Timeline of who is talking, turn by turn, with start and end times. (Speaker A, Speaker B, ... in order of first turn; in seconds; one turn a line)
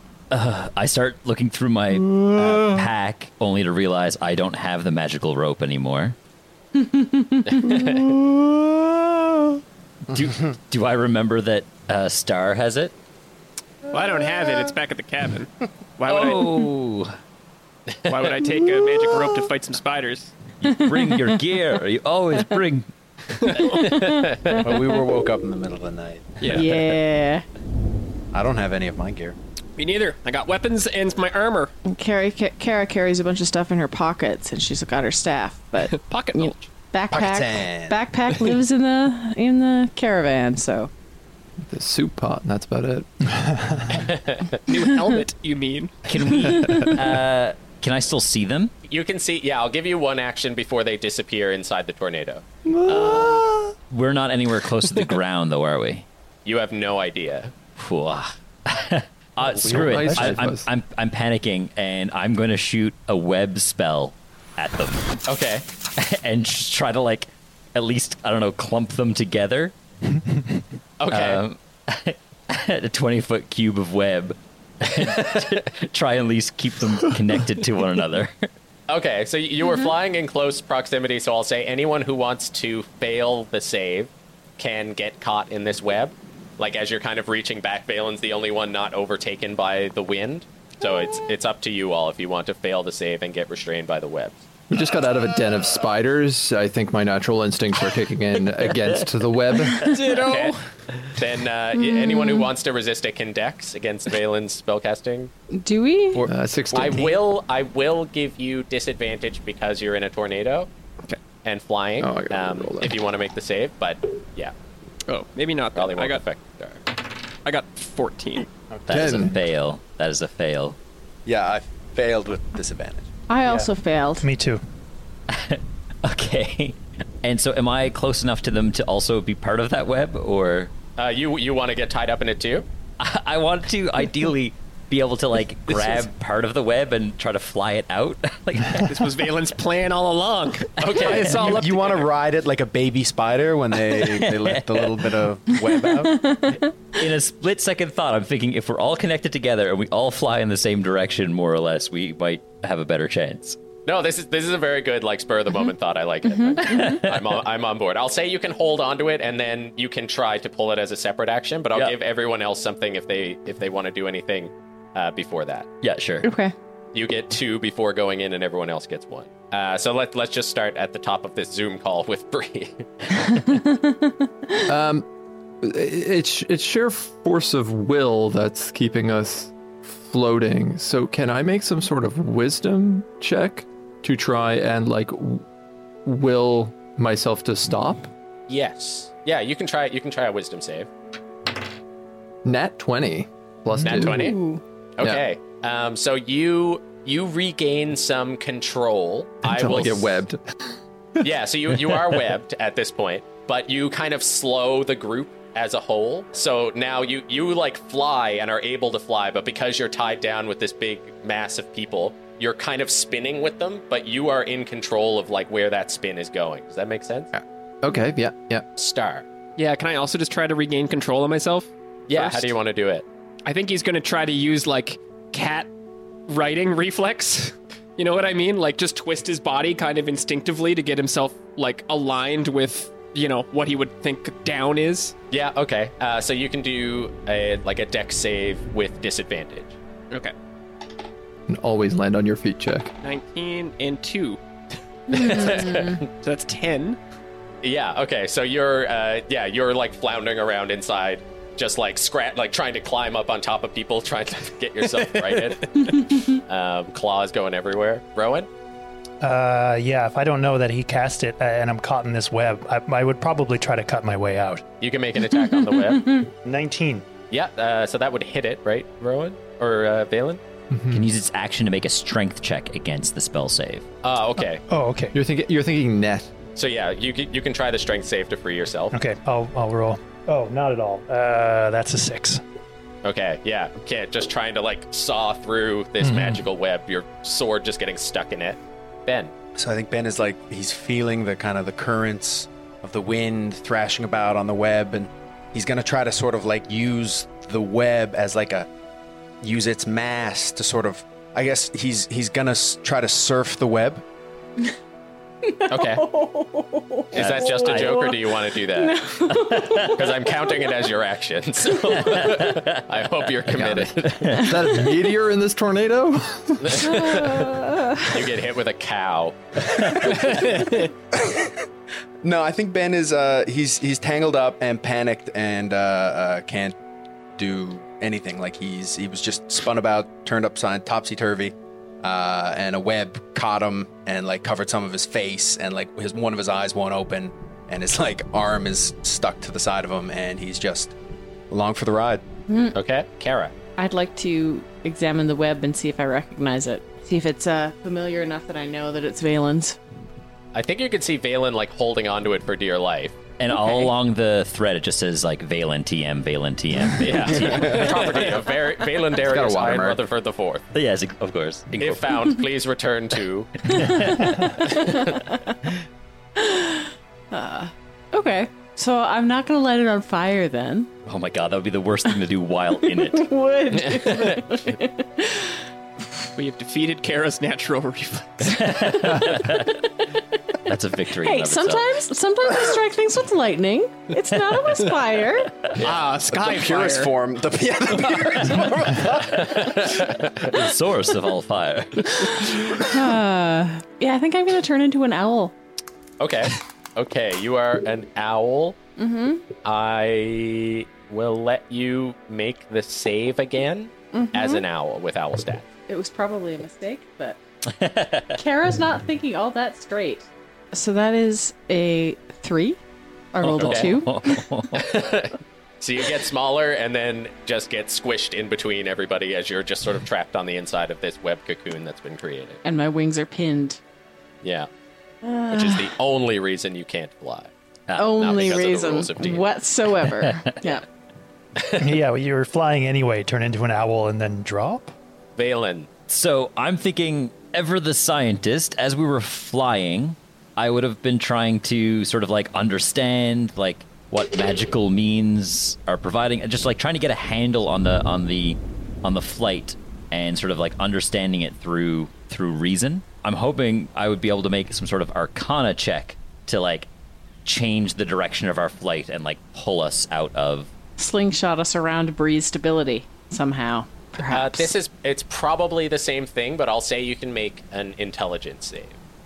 Speaker A: 0.3-6.2
Speaker B: 1.9-2.9
Speaker C: 6.8-7.8
Speaker D: 7.5-8.2
Speaker B: 8.0-9.2
Speaker A: 10.1-12.9
Speaker E: 13.9-16.6
Speaker C: 14.2-14.7
Speaker A: 16.1-17.1
Speaker E: 18.1-20.4
Speaker A: 20.6-22.9
Speaker C: 20.7-21.4
Speaker E: 23.4-24.0
Speaker C: 23.6-24.8
Speaker D: 24.0-24.6
Speaker F: 24.6-26.6
Speaker E: 26.4-26.8
Speaker C: 26.5-27.4
Speaker F: 28.3-29.4
Speaker E: 29.8-31.7
Speaker C: 31.8-40.9
Speaker E: 35.8-36.7
Speaker F: 37.1-38.0
Speaker B: 41.6-43.1
Speaker G: 43.3-44.0
Speaker D: 44.0-44.6
Speaker E: 44.7-46.6
Speaker A: 46.1-48.7
Speaker C: 46.6-46.9
Speaker D: 48.9-53.4
Speaker B: 52.6-53.7
Speaker A: 53.9-56.0
Speaker E: 54.9-55.2
Speaker D: 56.4-57.5
Speaker A: 57.8-65.1
Speaker B: 59.6-60.7
Speaker D: 65.3-65.6
Speaker A: 66.0-69.7
Speaker G: 70.2-70.6
Speaker D: 71.0-71.4
Speaker A: 71.1-78.5
Speaker D: 74.9-75.5
Speaker D: 78.9-94.4
Speaker B: 94.7-99.9
Speaker C: 99.8-100.5
Speaker E: 99.9-100.5
Speaker D: 100.2-100.6
Speaker D: 101.1-105.3
Speaker C: 101.8-102.5
Speaker C: 105.5-106.2
Speaker F: 106.1-107.2
Speaker B: 106.2-107.2
Speaker D: 106.7-110.7
Speaker D: 111.4-114.5
Speaker B: 112.0-113.0
Speaker E: 115.1-116.2
Speaker D: 115.7-116.8
Speaker E: 117.4-118.5
Speaker G: 118.7-119.3
Speaker A: 118.9-120.8
Speaker B: 118.9-119.3
Speaker F: 121.2-123.1
Speaker C: 123.3-124.2
Speaker G: 123.4-124.6
Speaker A: 125.3-130.7
Speaker D: 131.0-132.7
Speaker A: 133.0-139.1
Speaker E: 135.7-136.0
Speaker E: 138.8-142.1
Speaker D: 140.8-141.4
Speaker F: 141.1-146.4
Speaker A: 143.8-145.2
Speaker C: 145.9-146.7
Speaker A: 146.9-153.6
Speaker D: 153.8-165.7
Speaker C: 156.2-157.0
Speaker A: 156.6-157.3
Speaker A: 165.8-166.3
Speaker C: 166.2-166.5
Speaker D: 166.9-172.9
Speaker C: 173.3-174.7
Speaker B: 174.7-175.1
Speaker B: 175.6-185.4
Speaker B: 186.0-188.1
Speaker D: 188.5-190.9
Speaker B: 192.4-194.4
Speaker D: 193.8-194.4
Speaker C: 194.1-194.6
Speaker D: 195.0-200.2
Speaker B: 199.4-200.4
Speaker D: 201.2-217.3
Speaker B: 217.3-218.6
Speaker D: 218.8-219.2
Speaker E: 219.6-222.5
Speaker D: 222.1-223.1
Speaker E: 223.4-225.7
Speaker E: 226.3-235.1
Speaker D: 235.3-239.8
Speaker B: 241.5-242.9
Speaker E: 243.0-244.4
Speaker C: 245.1-246.0
Speaker E: 245.1-247.0
Speaker D: 245.1-246.0
Speaker D: 247.6-258.5
Speaker C: 255.9-256.2
Speaker G: 259.2-264.6
Speaker D: 264.8-266.2
Speaker C: 265.3-266.3
Speaker G: 266.4-267.0
Speaker D: 267.3-270.4
Speaker B: 270.7-271.1
Speaker A: 270.9-273.9
Speaker D: 274.0-274.6
Speaker G: 274.7-275.1
Speaker B: 275.1-276.3
Speaker D: 276.6-278.9
Speaker G: 278.9-282.4
Speaker D: 283.0-289.3
Speaker G: 286.0-286.4
Speaker F: 289.6-298.7
Speaker F: 299.4-304.0
Speaker C: 305.4-310.8
Speaker D: 305.7-306.1
Speaker D: 307.1-309.1
Speaker A: 307.1-308.1
Speaker A: 309.3-309.9
Speaker D: 309.8-314.4
Speaker A: 312.0-312.8
Speaker A: 313.5-314.6
Speaker B: 314.3-316.9
Speaker D: 316.6-320.7
Speaker C: 316.8-318.1
Speaker E: 320.3-320.7
Speaker F: 321.1-321.6
Speaker F: 322.2-326.7
Speaker F: 327.4-340.9
Speaker F: 341.5-342.2
Speaker C: 342.5-342.8
Speaker D: 342.7-343.5
Speaker C: 343.8-349.8
Speaker D: 350.5-353.2
Speaker A: 353.4-358.3
Speaker C: 353.5-353.9
Speaker D: 357.0-360.6
Speaker F: 357.4-358.2
Speaker B: 359.2-360.0
Speaker A: 360.7-362.4
Speaker D: 361.8-364.0
Speaker A: 363.6-364.8
Speaker D: 364.6-365.2
Speaker C: 364.9-365.2
Speaker C: 366.4-370.9
Speaker A: 371.1-373.3
Speaker C: 372.8-375.6
Speaker D: 373.9-374.4
Speaker E: 376.4-379.4
Speaker A: 378.5-379.7
Speaker A: 380.6-382.0
Speaker C: 381.1-385.6
Speaker E: 385.7-387.1
Speaker F: 385.8-389.9
Speaker A: 389.1-392.8
Speaker D: 389.3-390.5
Speaker C: 392.2-395.5
Speaker D: 396.2-398.8
Speaker C: 399.0-399.5
Speaker D: 399.6-405.7
Speaker C: 404.1-404.6
Speaker C: 405.9-407.4
Speaker A: 407.7-408.4
Speaker C: 408.3-412.8
Speaker C: 413.3-414.5
Speaker A: 413.4-414.9
Speaker D: 413.6-413.9
Speaker D: 414.7-422.6
Speaker C: 422.6-423.8
Speaker D: 424.4-424.7
Speaker C: 425.2-425.9
Speaker D: 425.5-427.5
Speaker A: 427.9-428.1
Speaker C: 427.9-430.8
Speaker D: 428.1-429.5
Speaker A: 430.2-430.6
Speaker G: 431.8-434.9
Speaker D: 435.4-435.9
Speaker A: 436.1-456.9
Speaker A: 457.4-460.7
Speaker C: 461.0-464.7
Speaker D: 464.3-469.0